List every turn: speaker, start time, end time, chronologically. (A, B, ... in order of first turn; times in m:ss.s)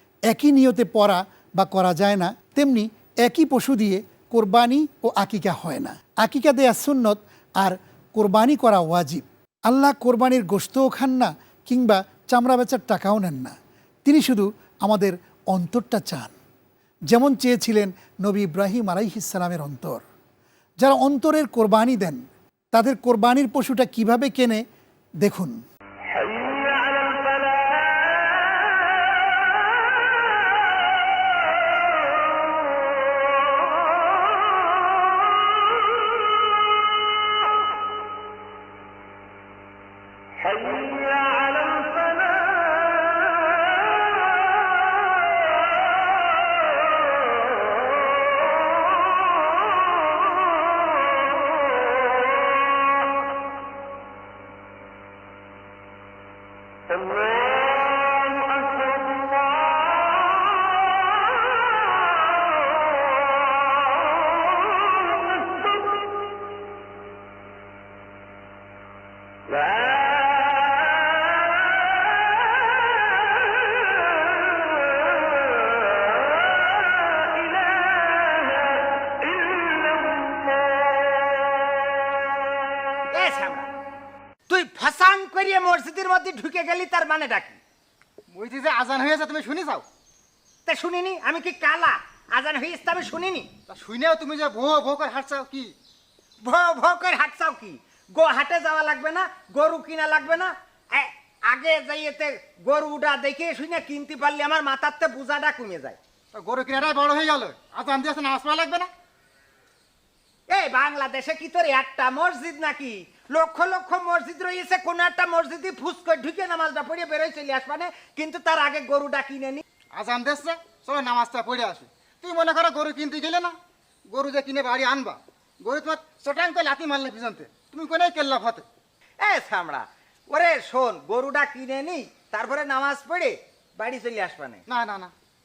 0:00.3-0:13.5 A
0:14.1-0:16.3 A
0:17.1-0:20.0 A
0:20.8-0:22.2 A
0:22.7-0:24.6 A
0:25.2-0:25.6 A
1:23.1-1:23.7 B
1:24.5-1:27.6 B
1:28.3-1:29.8 C
1:30.7-1:33.5 B
1:33.7-1:35.7 C
1:36.5-1:46.0 B
1:46.3-1:48.9 C
1:50.5-1:59.6 B
2:00.0-2:03.6 C
2:04.1-2:08.6 C
2:09.2-2:14.6 B
2:14.7-2:15.1 C